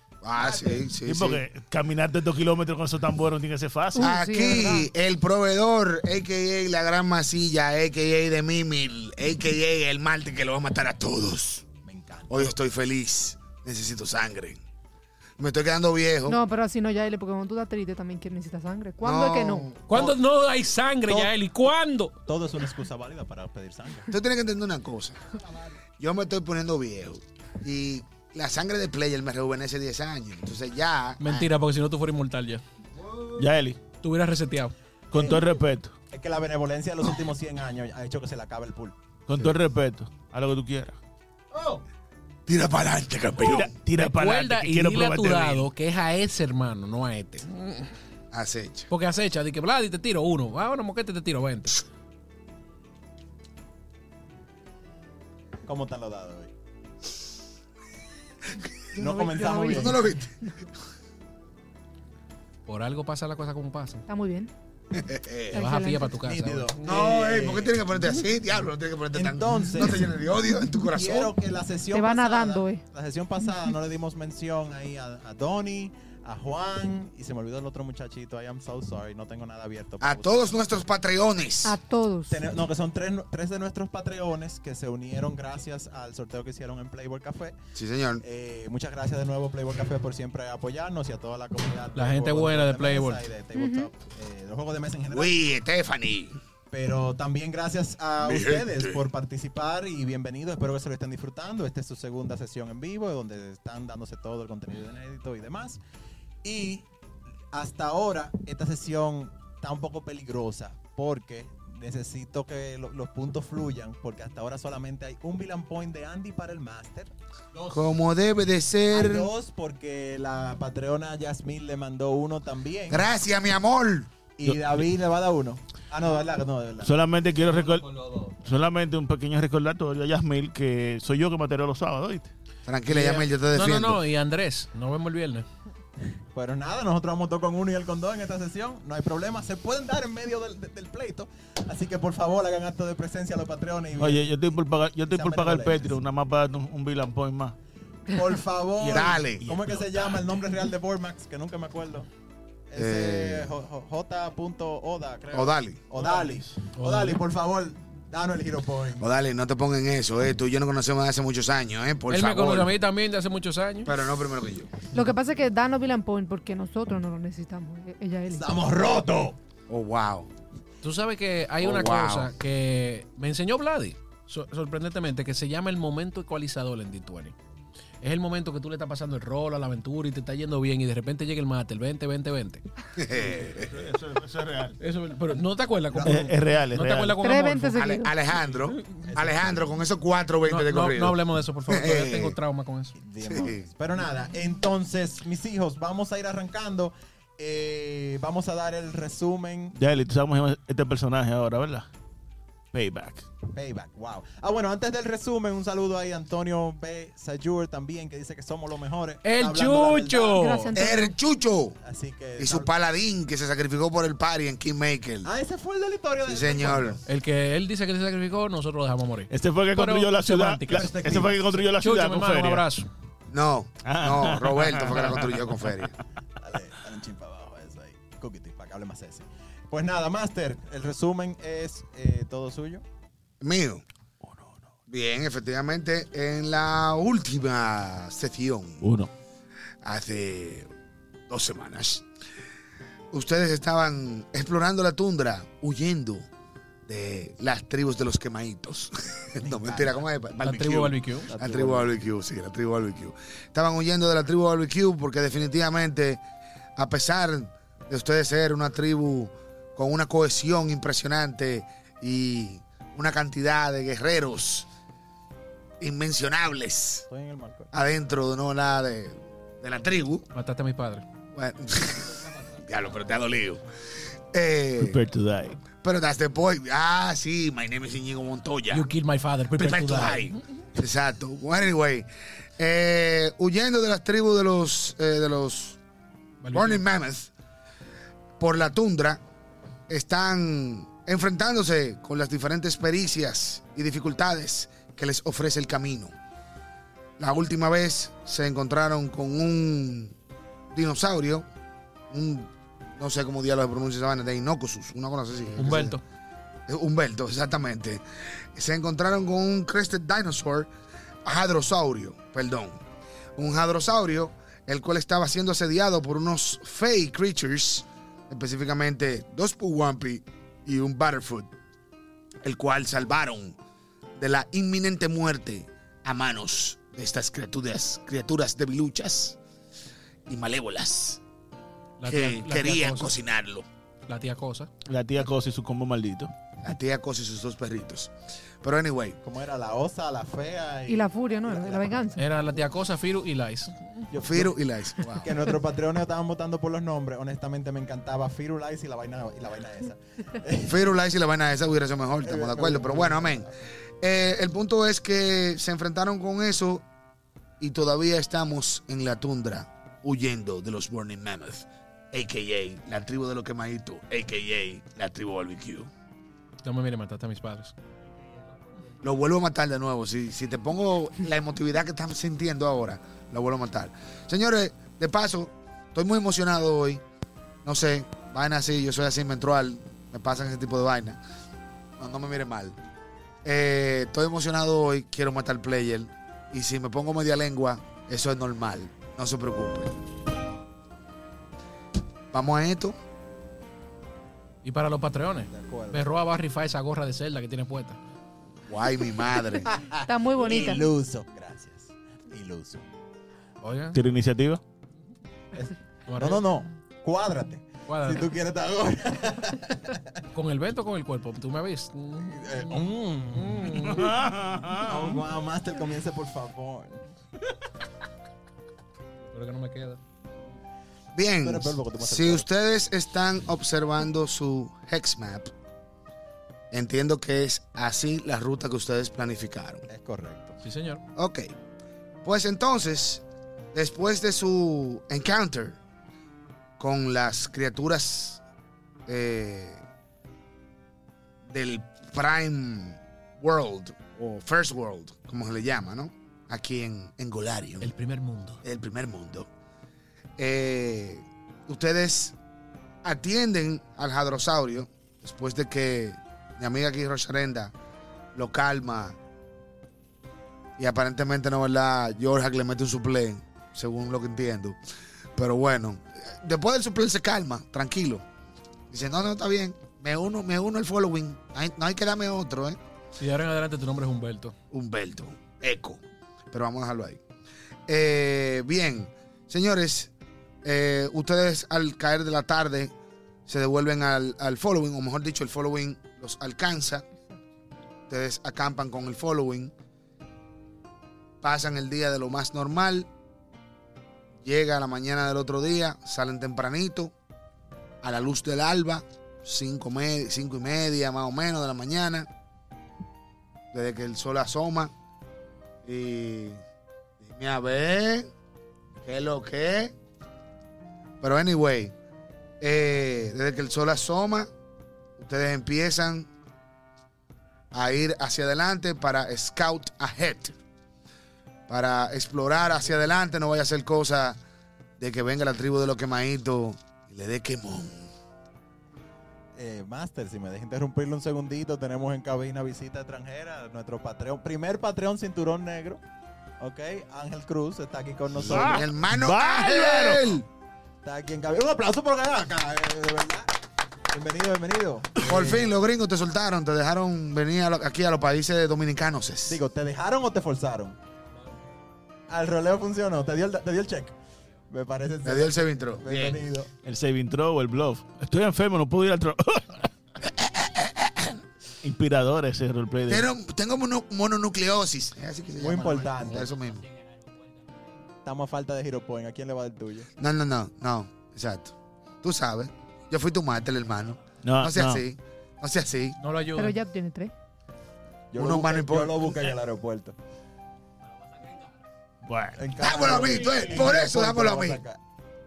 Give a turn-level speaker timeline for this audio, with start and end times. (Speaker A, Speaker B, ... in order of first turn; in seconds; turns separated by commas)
Speaker A: 0.2-1.4, Speaker B: 1.0-4.1, Speaker C: 4.0-4.9, Speaker A: 4.0-11.6, Speaker D: 11.8-12.5, Speaker A: 12.3-14.6, Speaker A: 15.4-16.4, Speaker C: 16.3-19.7, Speaker A: 19.0-20.2, Speaker E: 19.9-22.1, Speaker D: 22.3-24.1, Speaker A: 24.1-25.2, Speaker A: 26.0-31.5, Speaker E: 31.2-32.6, Speaker B: 33.3-33.8, Speaker E: 34.0-34.7, Speaker B: 35.1-35.9, Speaker D: 36.1-38.9, Speaker B: 39.3-41.0, Speaker A: 42.5-43.7, Speaker B: 43.4-45.7, Speaker E: 44.0-47.9, Speaker A: 48.3-48.9, Speaker E: 48.9-51.8, Speaker D: 55.6-56.5, Speaker A: 58.5-60.3, Speaker D: 59.0-60.0, Speaker C: 59.0-60.5, Speaker E: 62.7-64.0, Speaker C: 64.1-64.5, Speaker A: 64.9-65.7, Speaker C: 65.5-66.1, Speaker E: 65.5-66.7, Speaker D: 66.2-67.8, Speaker A: 66.8-71.3, Speaker D: 69.1-70.0, Speaker D: 70.9-80.7, Speaker C: 71.9-72.8, Speaker A: 80.0-81.8, Speaker C: 81.6-82.4, Speaker D: 82.3-87.5, Speaker A: 87.7-88.2, Speaker D: 88.2-95.4, Speaker E: 91.9-93.2, Speaker C: 93.5-93.9, Speaker A: 95.1-96.4, Speaker D: 96.7-105.8, Speaker A: 98.2-99.0, Speaker D: 106.4-106.8, Speaker D: 107.5-117.1, Speaker A: 117.6-119.3, Speaker D: 118.9-123.1, Speaker A: 122.9-124.1, Speaker D: 124.4-126.9, Speaker B: 124.4-124.8, Speaker B: 126.8-132.3, Speaker A: 132.7-134.0, Speaker E: 132.8-135.5, Speaker D: 136.3-144.3, Speaker B: 144.0-147.6, Speaker D: 145.1-146.0, Speaker D: 148.1-152.1, Speaker B: 148.8-150.3, Speaker A: 148.9-149.4, Speaker D: 152.7-159.1, Speaker A: 152.8-153.5, Speaker A: 155.3-155.8, Speaker B: 155.9-156.5, Speaker E: 156.8-157.2, Speaker A: 159.0-162.7, Speaker E: 162.1-163.9, Speaker A: 163.8-164.7, Speaker C: 164.9-168.5, Speaker D: 168.3-169.4, Speaker A: 169.7-170.3, Speaker E: 170.8-177.3, Speaker A: 171.6-172.3, Speaker E: 178.0-182.6, Speaker A: 183.0-183.8, Speaker B: 183.3-184.8, Speaker E: 184.8-188.0, Speaker D: 185.9-186.2, Speaker B: 186.0-187.2, Speaker C: 187.2-188.1, Speaker A: 187.7-192.4, Speaker E: 190.5-192.9, Speaker D: 193.0-199.7, Speaker A: 193.2-193.7, Speaker B: 199.7-201.9, Speaker B: 202.7-203.2, Speaker D: 203.5-210.4, Speaker E: 209.2-210.8, Speaker C: 210.3-211.1, Speaker A: 210.7-211.8, Speaker D: 211.8-212.7, Speaker A: 212.4-215.3, Speaker D: 215.2-217.0, Speaker A: 216.2-217.0, Speaker E: 217.1-221.0, Speaker B: 219.3-222.7, Speaker D: 220.7-221.6, Speaker E: 221.8-222.9, Speaker A: 223.3-225.9, Speaker B: 223.8-225.4, Speaker D: 226.4-232.8, Speaker A: 233.4-233.8, Speaker B: 234.2-234.6, Speaker A: 234.9-238.9, Speaker B: 238.8-239.1, Speaker A: 239.8-240.7, Speaker A: 241.3-242.1, Speaker A: 243.1-246.3, Speaker A: 246.8-256.2, Speaker D: 249.4-250.0, Speaker E: 250.4-251.3, Speaker D: 251.2-251.9, Speaker A: 256.8-264.7, Speaker A: 265.8-267.1, Speaker D: 267.1-267.7, Speaker A: 267.7-270.3, Speaker E: 270.3-271.0, Speaker A: 271.3-273.6, Speaker A: 274.3-275.0, Speaker B: 274.8-275.6, Speaker A: 275.7-278.9, Speaker E: 278.7-280.3, Speaker A: 279.6-282.1, Speaker A: 282.6-285.8, Speaker E: 286.4-286.8, Speaker A: 286.5-287.3, Speaker A: 288.4-289.2, Speaker A: 289.9-296.1, Speaker A: 297.2-300.1, Speaker A: 300.7-301.5, Speaker A: 302.1-306.0, Speaker E: 305.6-306.0, Speaker A: 306.7-308.0, Speaker A: 308.5-310.7, Speaker A: 311.2-312.8, Speaker A: 313.4-321.5, Speaker A: 322.4-323.6, Speaker A: 324.2-329.4, Speaker A: 330.3-331.2, Speaker E: 332.0-333.1, Speaker A: 332.0-333.7, Speaker E: 334.1-334.7, Speaker B: 334.8-336.3, Speaker A: 336.6-339.2, Speaker D: 339.2-342.2, Speaker C: 340.9-342.2, Speaker E: 342.2-343.9, Speaker A: 344.1-345.4, Speaker D: 344.1-344.5, Speaker D: 345.1-350.9, Speaker A: 350.6-353.5, Speaker D: 352.2-353.5, Speaker A: 354.0-356.8, Speaker A: 357.6-365.9, Speaker E: 366.6-367.7, Speaker A: 369.0-377.0, Speaker A: 377.6-381.2, Speaker A: 382.0-382.8, Speaker A: 383.4-390.0, Speaker A: 392.3-392.9, Speaker E: 394.6-398.0, Speaker D: 395.5-396.1, Speaker A: 398.7-399.8, Speaker D: 399.8-402.8, Speaker C: 400.1-400.9, Speaker E: 403.6-404.0, Speaker B: 403.9-404.6, Speaker D: 405.5-410.0, Speaker E: 406.1-406.4, Speaker E: 407.9-408.2, Speaker E: 410.3-412.6, Speaker D: 412.3-413.9, Speaker E: 413.4-414.1, Speaker B: 413.7-415.2, Speaker D: 414.8-417.0, Speaker E: 419.3-420.0, Speaker A: 421.1-425.5, Speaker D: 421.4-422.5, Speaker A: 426.7-429.9, Speaker D: 429.9-430.6, Speaker E: 430.6-431.0, Speaker A: 431.1-431.5, Speaker A: 432.2-433.2, Speaker A: 433.7-435.8, Speaker A: 436.8-438.4, Speaker A: 439.1-439.8, Speaker A: 441.5-447.9, Speaker E: 447.8-448.6, Speaker A: 448.6-449.5, Speaker A: 450.4-452.3, Speaker A: 453.0-457.7, Speaker A: 458.3-459.1, Speaker A: 460.8-464.8, Speaker A: 465.4-468.2, Speaker A: 468.9-472.8, Speaker E: 473.2-474.5, Speaker A: 474.7-477.2, Speaker A: 477.9-480.1, Speaker A: 480.6-482.9, Speaker A: 483.5-487.0, Speaker A: 488.1-489.7, Speaker A: 491.4-493.1, Speaker A: 494.4-497.1, Speaker A: 498.0-502.3, Speaker A: 503.7-504.9, Speaker A: 505.8-506.6, Speaker A: 507.2-508.3, Speaker A: 509.0-509.9, Speaker A: 511.2-511.9, Speaker A: 512.6-514.5, Speaker A: 515.2-516.3, Speaker A: 517.7-520.6, Speaker A: 521.7-524.4, Speaker A: 525.0-528.1, Speaker D: 529.5-536.0, Speaker D: 536.6-538.9, Speaker A: 538.3-540.5, Speaker B: 538.5-540.3, Speaker D: 541.0-543.5, Speaker D: 544.1-545.7, Speaker A: 545.2-549.6, Speaker D: 549.5-551.0, Speaker D: 552.3-554.1, Speaker D: 554.7-556.7, Speaker A: 555.2-556.4, Speaker B: 556.8-559.9, Speaker A: 560.4-561.4, Speaker B: 561.8-563.2, Speaker A: 563.1-566.9, Speaker D: 565.6-566.5, Speaker D: 568.2-570.1, Speaker A: 570.2-576.2, Speaker B: 574.4-575.0, Speaker E: 576.2-576.8, Speaker C: 576.5-577.3, Speaker D: 578.3-580.1, Speaker A: 578.4-579.3, Speaker B: 582.2-582.7, Speaker D: 582.6-585.0, Speaker A: 582.8-584.8